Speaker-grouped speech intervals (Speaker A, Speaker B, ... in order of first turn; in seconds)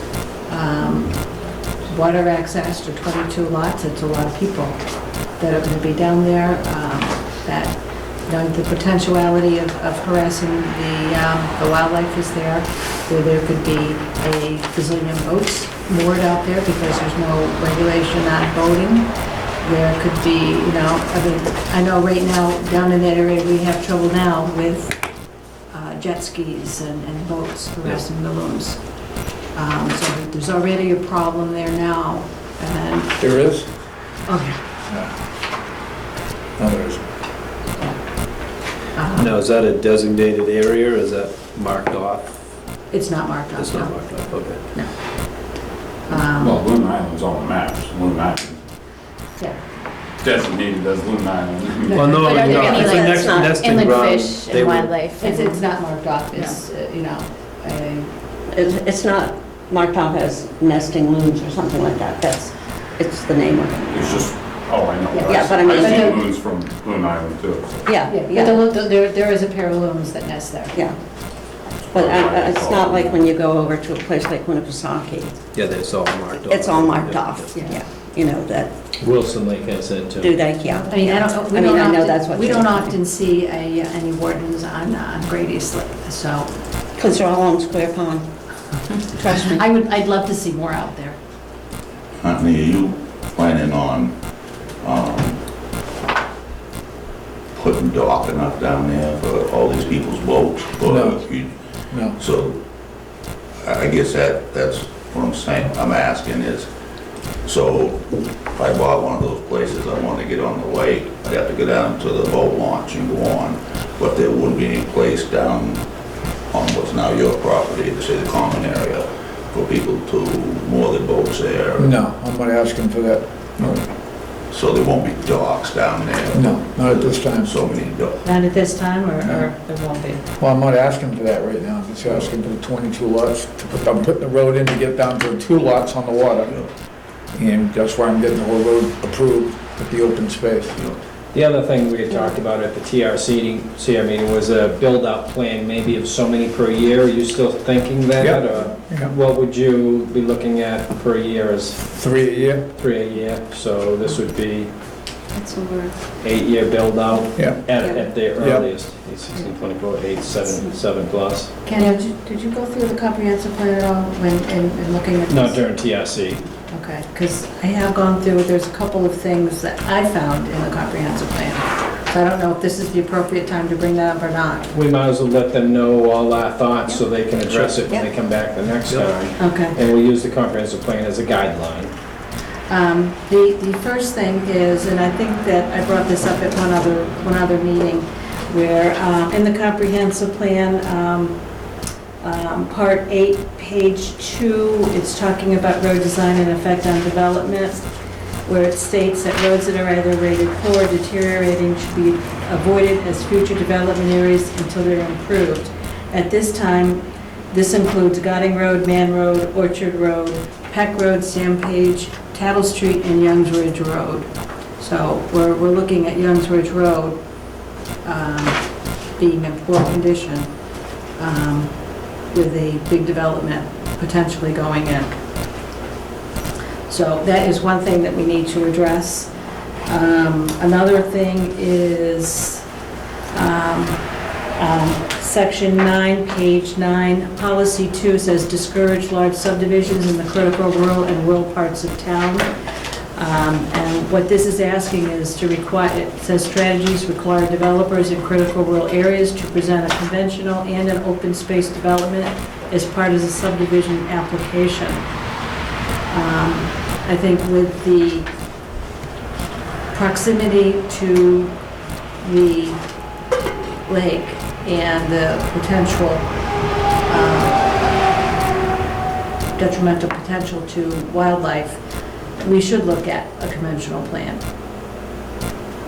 Speaker A: 0.5-1.2, 1.9-4.8, 5.4-25.0, 25.7-28.8, 29.5-33.2, 34.3-34.6, 39.0-39.4, 42.9-44.1, 46.1-46.6, 51.9-52.8, 55.2-58.1, 65.1-66.2, 68.1-70.8, 80.9-86.5, 89.5-91.2, 128.2-130.2, 161.6-165.6, 166.7-174.7, 179.4-179.8, 182.7-191.4, 192.2-197.8, 198.4-217.2, 218.0-218.6, 219.2-220.5, 221.2-225.1, 226.9-229.3, 229.9-232.6, 233.3-234.0, 234.6-242.5, 243.2-255.0, 256.1-258.3, 259.9-261.6, 262.2-262.8, 263.5-266.3, 267.1-267.6, 269.6-271.8, 272.4-274.4
Speaker B: 33.2-33.7, 36.6-37.0, 100.8-101.3, 101.9-102.2, 121.8-123.8, 126.3-127.5, 130.4-136.6, 137.3-140.8, 148.2-149.1, 151.9-152.7, 157.3-157.6, 158.2-158.7
Speaker C: 39.2-42.3, 43.5-44.6, 51.9-54.9, 75.5-77.5, 177.4-178.0, 178.9-179.2
Speaker D: 46.4-48.6, 50.2-52.5, 63.9-68.0, 71.8-73.3
Speaker E: 52.2-55.6
Speaker F: 52.7-53.5, 58.5-64.2, 65.2-66.3, 67.8-68.7, 71.9-75.4, 76.4-78.7, 80.2-83.0, 87.0-88.3, 89.2-89.6, 155.4-155.9
Speaker G: 79.0-80.4, 141.3-152.0, 152.8-154.7, 156.2-161.5, 165.3-166.4, 174.7-181.9
Speaker H: 92.2-94.1, 94.8-95.4, 97.6-101.5, 102.2-102.6, 103.7-106.7, 107.4-115.8, 116.5-121.9, 124.5-128.2